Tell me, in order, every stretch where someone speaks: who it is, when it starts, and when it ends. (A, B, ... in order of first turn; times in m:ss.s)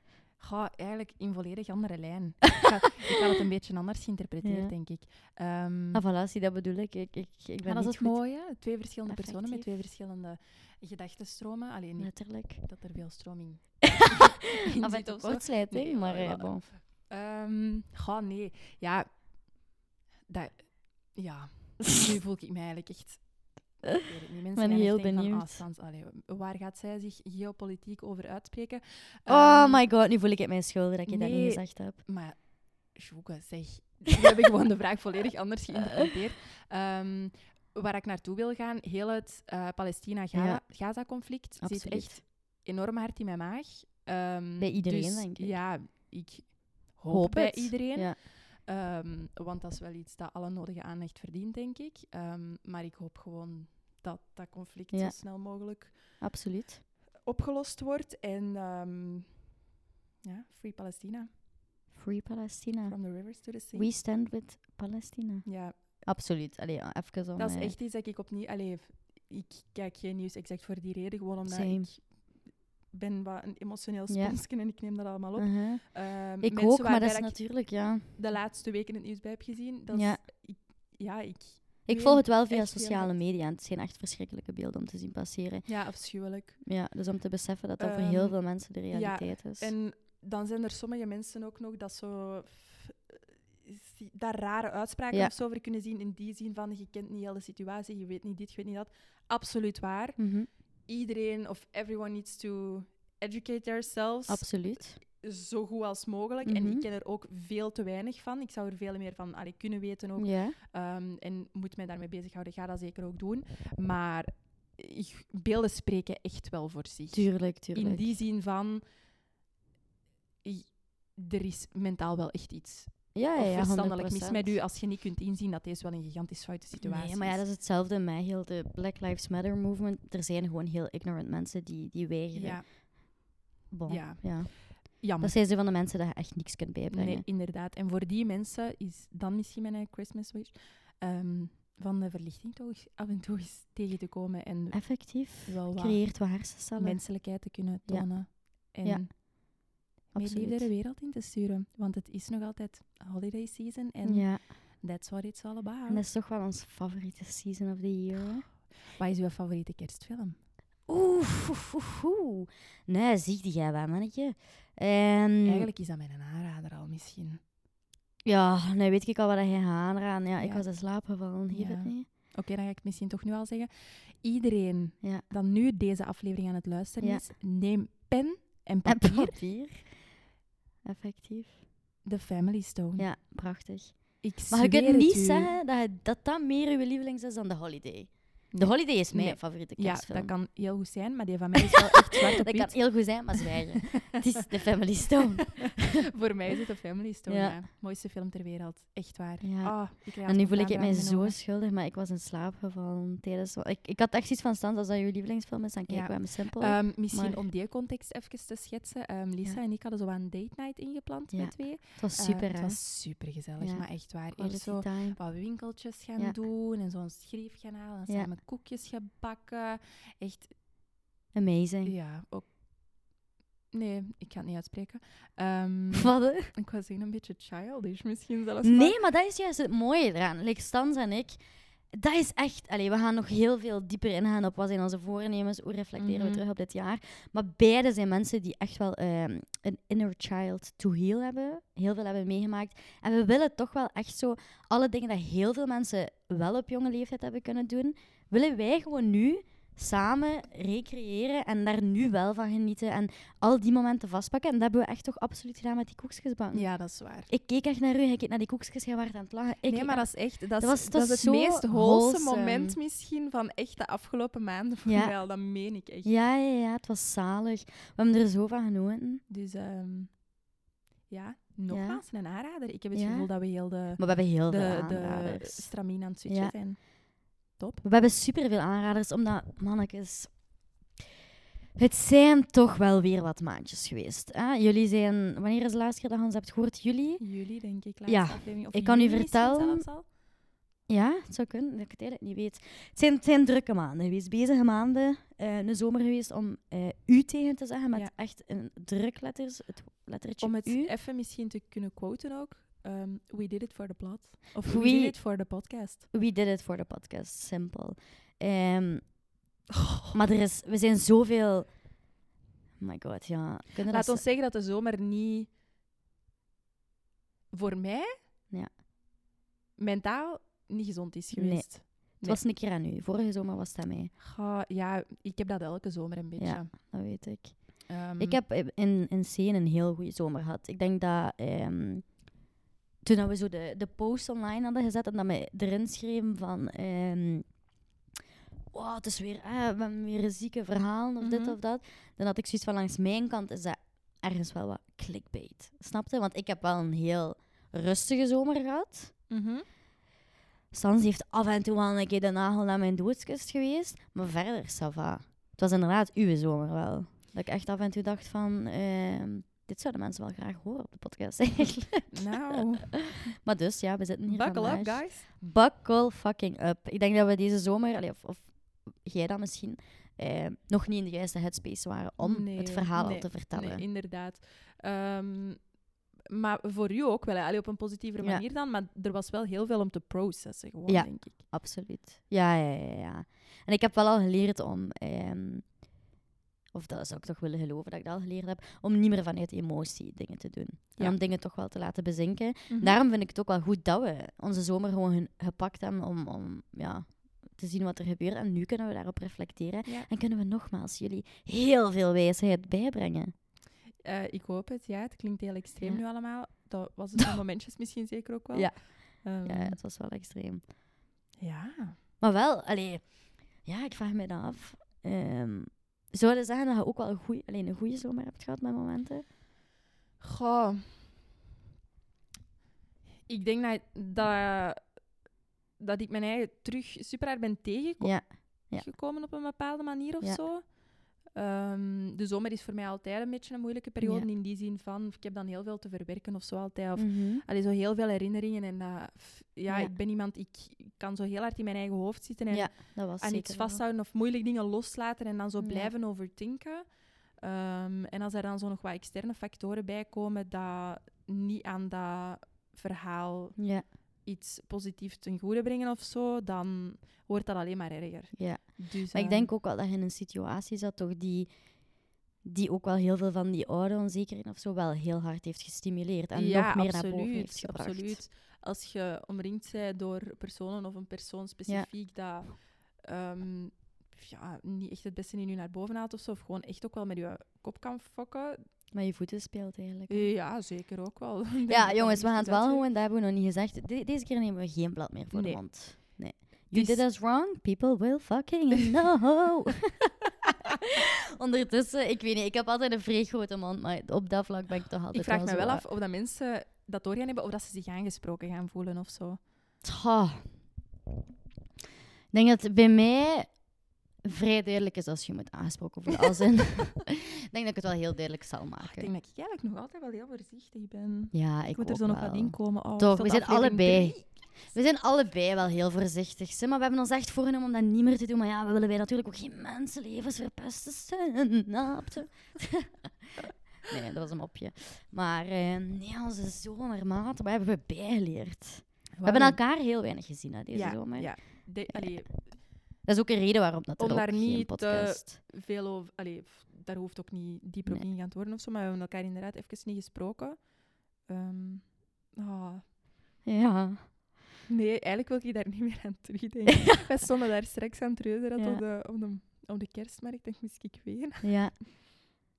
0:00.4-0:06.0 A
0:04.4-0:04.7 B
0:05.9-0:08.2 B
0:07.6-0:19.1 A
0:09.1-0:09.8 B
0:12.0-0:12.6 B
0:13.9-0:16.6 B
0:20.3-0:23.2 A
0:23.8-0:29.8 A
0:24.5-0:25.6 B
0:29.3-0:32.0 B
0:31.0-0:56.2 A
0:40.3-0:40.6 B
0:41.6-0:42.2 B
0:44.6-0:45.6 B
0:47.1-0:48.2 B
0:56.2-0:56.8 B
0:57.2-0:59.5 A
1:00.2-1:01.3 A
1:01.9-1:03.1 B
1:02.8-1:03.9 A
1:03.7-1:07.8 B
1:05.4-1:05.7 A
1:07.4-1:23.2 A
1:11.4-1:11.9 B
1:14.1-1:14.4 B
1:15.4-1:18.1 B
1:19.9-1:20.2 B
1:21.8-1:25.7 B
1:25.6-1:26.6 A
1:26.6-1:29.7 B
1:27.8-1:40.2 A
1:40.2-1:40.5 B
1:40.9-1:58.8 A
1:44.3-1:45.0 B
1:46.4-1:46.8 B
1:50.2-1:50.6 B
1:57.1-1:58.2 B
2:00.4-2:07.4 A
2:03.1-2:04.6 B
2:06.8-2:12.8 B
2:12.3-2:13.3 A
2:13.7-2:17.2 B
2:13.9-2:15.4 A
2:16.9-2:29.4 A
2:24.7-2:29.2 B
2:30.1-2:36.0 A
2:30.1-2:30.7 B
2:34.0-2:34.4 B
2:35.9-2:38.5 B
2:38.9-2:40.4 A
2:40.9-2:45.7 B
2:45.4-2:47.4 A
2:48.2-2:52.1 B
2:50.4-2:50.7 A
2:51.5-2:59.4 A
2:58.8-2:59.9 B
3:00.8-3:01.6 B
3:02.0-3:03.1 A
3:03.0-3:10.3 B
3:04.2-3:05.5 A
3:08.5-3:13.5 A
3:11.6-3:15.9 B
3:15.6-3:21.4 A
3:17.3-3:17.6 B
3:19.4-3:27.4 B
3:25.9-3:40.5 A
3:31.3-3:32.8 B
3:33.6-3:35.2 B
3:41.3-3:41.9 B
3:41.8-3:43.0 A
3:43.7-3:49.0 A
3:45.9-3:46.5 B
3:48.6-3:51.4 B
3:51.9-4:16.7 B
3:56.0-3:56.4 A
4:16.5-4:17.3 A
4:17.3-4:22.8 B
4:19.7-4:26.1 A
4:24.9-4:25.2 B
4:26.0-4:29.2 B
4:29.3-4:30.2 A
4:31.1-4:36.8 A
4:31.7-4:32.0 B
4:32.9-4:33.3 B
4:33.9-4:35.7 B
4:36.3-4:36.5 B
4:37.5-4:37.8 A
4:37.8-4:40.4 B
4:41.8-4:47.2 B
4:47.2-4:50.0 A
4:48.0-4:49.8 B
4:50.9-5:00.9 B
5:00.4-5:06.0 A
5:04.6-5:05.2 B
5:06.1-5:09.1 B
5:09.7-5:10.2 A
5:10.1-5:11.8 B
5:12.8-5:14.2 B
5:13.9-5:15.5 A
5:17.5-5:18.1 A
5:19.8-5:22.4 A
5:21.3-5:24.1 B
5:24.2-5:26.7 A
5:26.4-5:32.1 B
5:27.9-5:28.4 A
5:33.0-5:37.4 B
5:38.7-5:49.1 B
5:41.2-5:41.6 A
5:49.3-5:49.6 A
5:50.7-6:13.8 B
6:02.1-6:03.0 A
6:04.3-6:05.3 A
6:12.2-6:15.6 A
6:16.3-6:21.4 A
6:20.9-6:25.7 B
6:26.7-6:43.3 B
6:32.7-6:33.0 A
6:44.0-6:49.8 A
6:48.5-6:50.6 B
6:51.4-6:52.0 A
6:52.2-6:59.3 B
7:00.2-7:01.1 A
7:03.3-7:04.9 A
7:05.8-7:10.7 A
7:08.0-7:08.9 B
7:11.2-7:33.6 A
7:14.0-7:14.3 B
7:17.0-7:17.4 B
7:19.7-7:19.9 B
7:22.5-7:23.8 B
7:25.6-7:25.9 B
7:33.6-7:33.8 B
7:34.2-7:39.5 A
7:38.3-7:41.5 B
7:42.4-7:48.2 B
7:46.3-7:58.6 A
7:58.9-8:00.3 B
8:00.1-8:02.8 A
8:01.7-8:10.1 B
8:05.3-8:06.2 A
8:06.7-8:07.0 A
8:10.8-8:15.8 B
8:15.1-8:19.4 A
8:19.8-8:20.4 B
8:22.3-8:23.6 B
8:24.2-8:29.1 B
8:28.8-8:34.3 A
8:31.3-8:43.3 B
8:43.9-8:51.3 B
8:49.2-8:49.6 A
8:50.7-8:52.3 A
8:53.0-8:55.4 B
8:54.0-9:00.6 A
9:01.2-9:02.8 A
9:03.4-9:04.1 B
9:04.7-9:11.5 A
9:08.6-9:08.8 B
9:11.4-9:12.2 B